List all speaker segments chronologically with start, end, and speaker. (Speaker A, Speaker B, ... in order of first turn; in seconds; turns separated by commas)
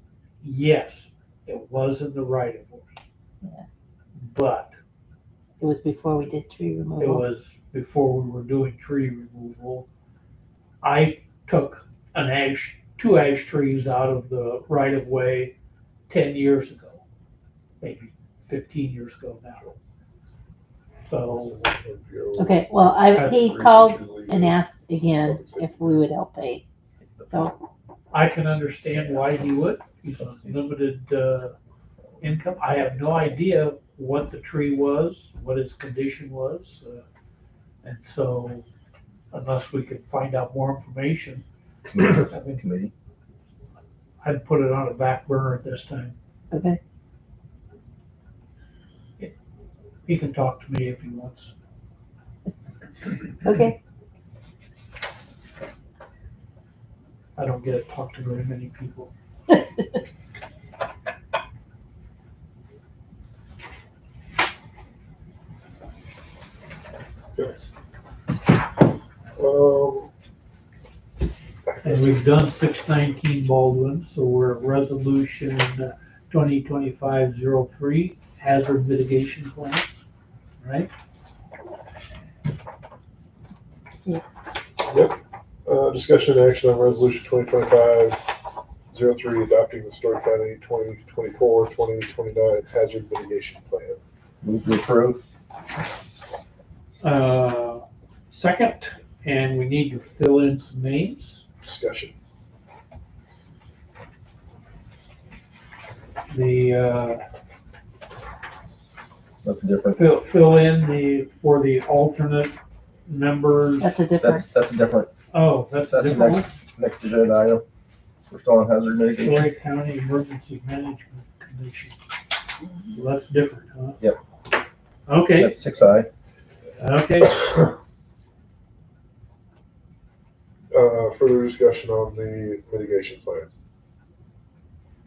Speaker A: 0.4-3.0, Speaker B: 3.4-3.7, Speaker A: 4.2-4.7, Speaker B: 5.6-7.2, Speaker A: 7.0-9.9, Speaker A: 10.8-15.5, Speaker A: 16.1-17.0, Speaker A: 17.8-19.6, Speaker A: 21.1-21.6, Speaker C: 21.3-26.1, Speaker B: 22.4-26.6, Speaker D: 27.2-27.4, Speaker B: 27.3-27.6, Speaker A: 28.1-31.5, Speaker D: 30.2-30.5, Speaker A: 32.2-37.0, Speaker A: 37.8-38.6, Speaker A: 39.3-41.4, Speaker D: 41.9-42.9, Speaker A: 42.0-42.6, Speaker A: 44.2-46.1, Speaker B: 46.5-46.8, Speaker A: 50.0-51.5, Speaker B: 53.4-53.8, Speaker A: 57.4-59.1, Speaker C: 69.3-70.1, Speaker C: 71.7-72.1, Speaker A: 71.8-79.8, Speaker A: 80.6-80.9, Speaker C: 84.9-88.2, Speaker C: 88.9-94.0, Speaker D: 94.4-95.2, Speaker A: 97.0-101.4, Speaker C: 101.6-102.1, Speaker A: 106.3-107.2, Speaker D: 109.4-110.0, Speaker A: 109.8-113.9, Speaker B: 113.8-114.4, Speaker D: 114.2-115.1, Speaker A: 115.3-116.5, Speaker D: 115.9-117.6, Speaker D: 118.3-119.5, Speaker A: 119.1-122.0, Speaker A: 122.9-124.0, Speaker A: 125.1-125.5, Speaker D: 125.4-126.1, Speaker A: 126.8-127.4, Speaker C: 130.7-133.5